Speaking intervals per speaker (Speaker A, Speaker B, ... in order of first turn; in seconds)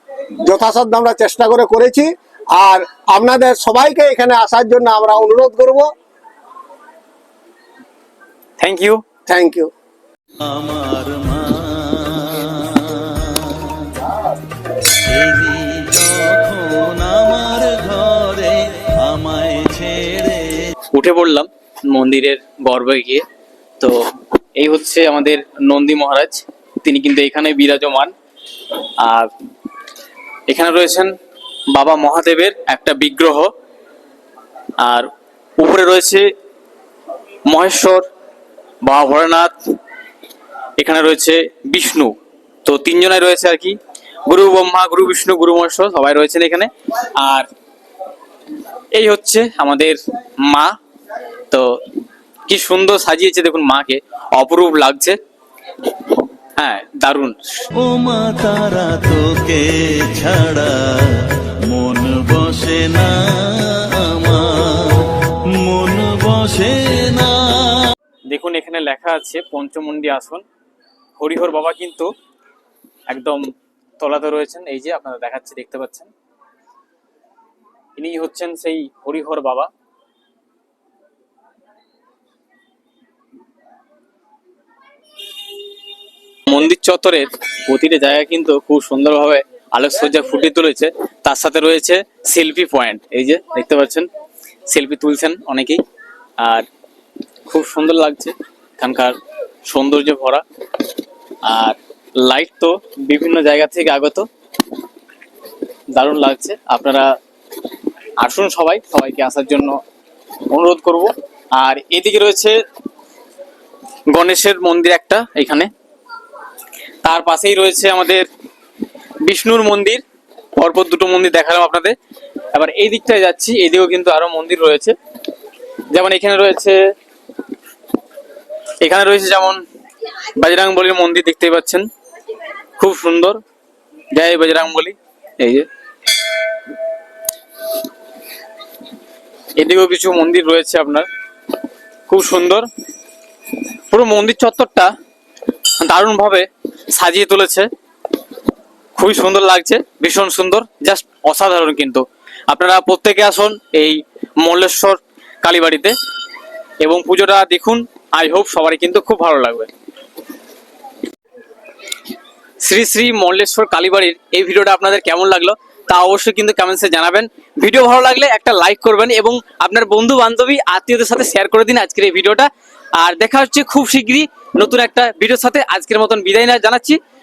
Speaker A: 0.4-5.9, 9.3-9.7
Speaker B: 8.6-9.0, 20.9-23.2, 24.6-28.1, 29.0-29.3, 30.5-31.1, 31.7-33.5, 34.8-36.3, 37.5-38.0, 38.8-39.7, 40.8-47.5, 48.9-50.7, 51.5-51.8, 52.5-55.2, 56.5-57.6, 68.3-70.4, 71.2-72.1, 73.1-73.5, 74.0-76.1, 78.0-79.7, 86.5-94.1, 94.7-95.8, 96.4-96.7, 97.5-100.4, 101.4-104.3, 105.9-107.1, 108.2-109.8, 110.5-112.6, 114.1-115.7, 117.0-118.3, 119.2-120.0, 120.5-122.0, 122.5-125.0, 125.9-126.9, 128.8-129.6, 130.3-131.9, 132.8-133.4, 134.1-135.7, 139.6-141.1, 142.1-142.7, 143.9-144.9, 145.7-147.7, 148.9-155.9, 156.8-159.7, 162.6-177.0
Speaker C: 10.4-14.0, 15.0-20.7, 57.8-67.9